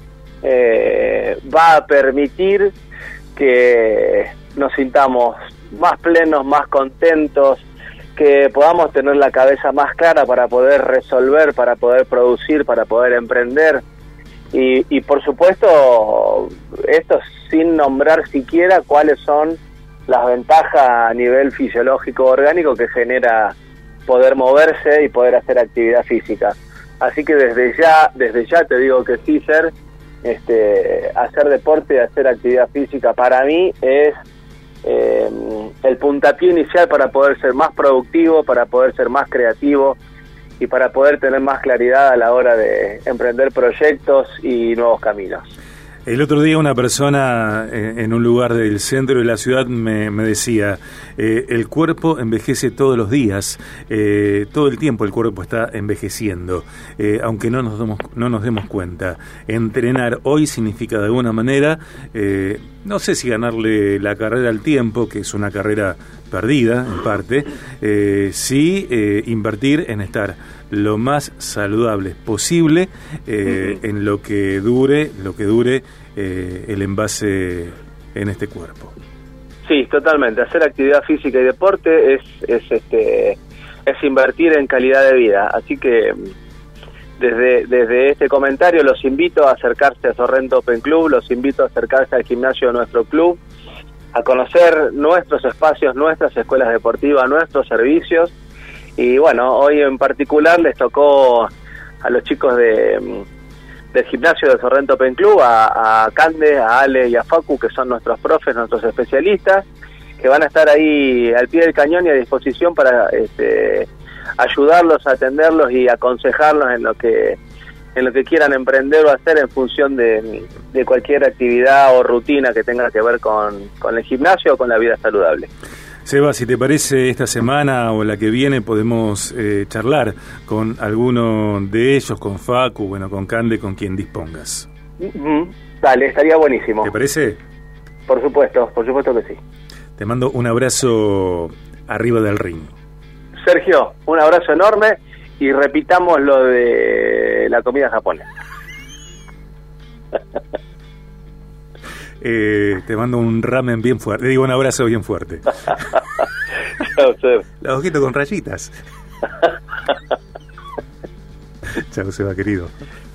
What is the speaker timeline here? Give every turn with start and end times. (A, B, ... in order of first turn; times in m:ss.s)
0:00.4-0:02.7 A
0:03.4-0:07.6 A
0:08.2-0:13.8 A
0:14.5-0:23.6 A
0:24.1-0:29.7 A
0:30.2-0:34.2 A
0:34.8-0:40.0 A
0:40.6-0:45.5 A
0:46.1-1:18.9 B
1:19.6-1:26.3 A
1:27.2-1:33.4 A
1:34.1-1:38.3 A
1:39.0-1:41.5 A
1:42.0-1:43.3 A
1:43.9-1:49.6 A
1:50.2-1:53.9 A
1:54.4-1:57.4 A
1:58.0-2:05.5 A
2:06.0-2:14.7 B
2:15.0-2:16.9 A
2:16.8-2:17.4 B
2:18.1-2:19.4 A
2:20.0-2:22.7 B
2:23.4-2:28.3 A
2:32.2-2:35.8 B
2:36.8-2:37.4 A
2:37.6-2:38.7 B
2:41.8-2:42.7 B